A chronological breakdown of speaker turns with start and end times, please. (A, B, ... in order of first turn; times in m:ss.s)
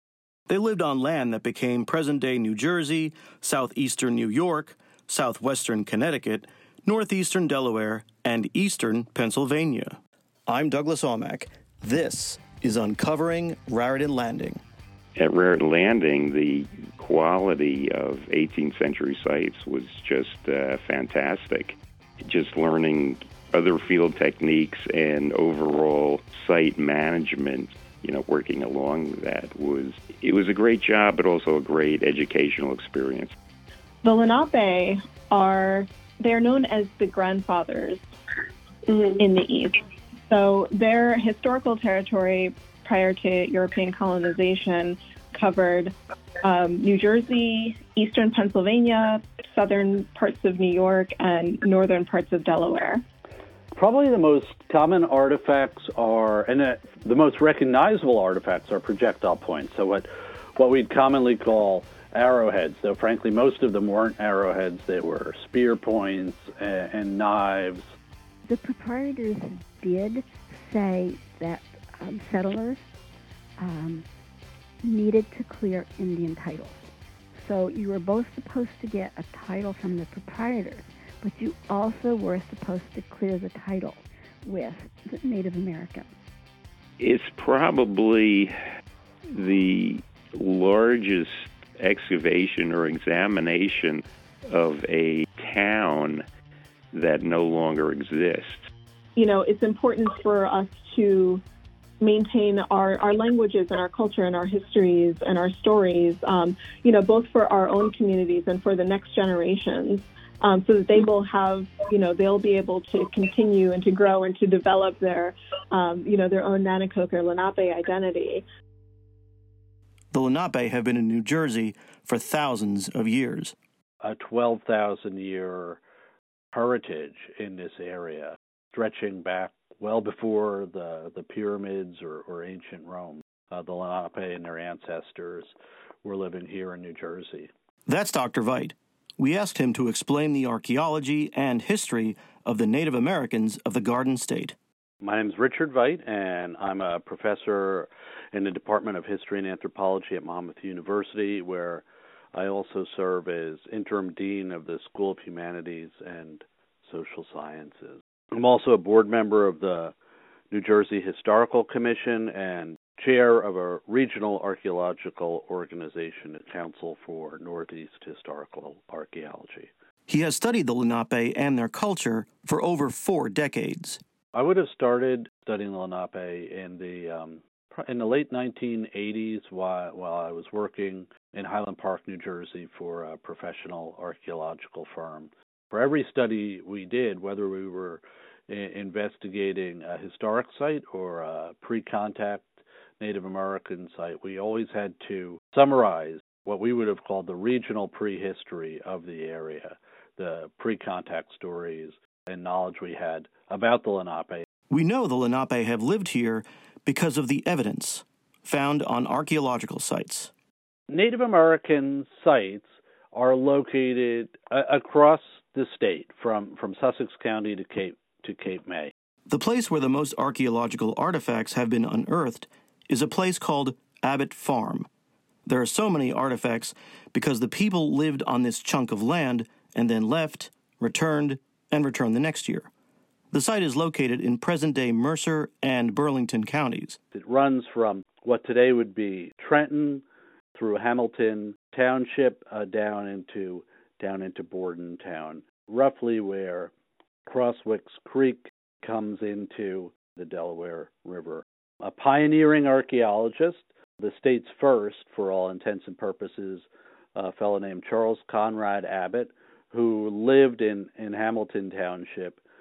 0:00.5-0:14.6 A
0:15.2-0:33.3 B
0:34.0-0:38.0 C
0:39.2-0:53.0 C
0:53.7-1:07.9 D
1:08.4-1:12.9 E
1:13.6-1:14.1 E
1:14.8-1:26.1 E
1:27.0-1:28.6 B
1:29.3-1:36.2 B
1:36.9-1:38.7 B
1:39.2-1:41.4 C
1:42.0-1:58.5 C
2:00.1-2:03.6 A
2:04.0-2:05.8 D
2:06.5-2:17.5 D
2:17.9-2:24.5 A
2:25.0-2:39.9 D
2:40.5-2:49.7 D
2:50.1-2:54.0 A
2:54.3-3:24.4 D
3:24.7-3:30.3 A
3:30.9-3:38.9 D
3:39.3-3:44.9 A
3:45.5-3:52.7 A
3:53.3-3:57.0 A
3:57.1-4:06.7 D
4:07.3-4:22.4 D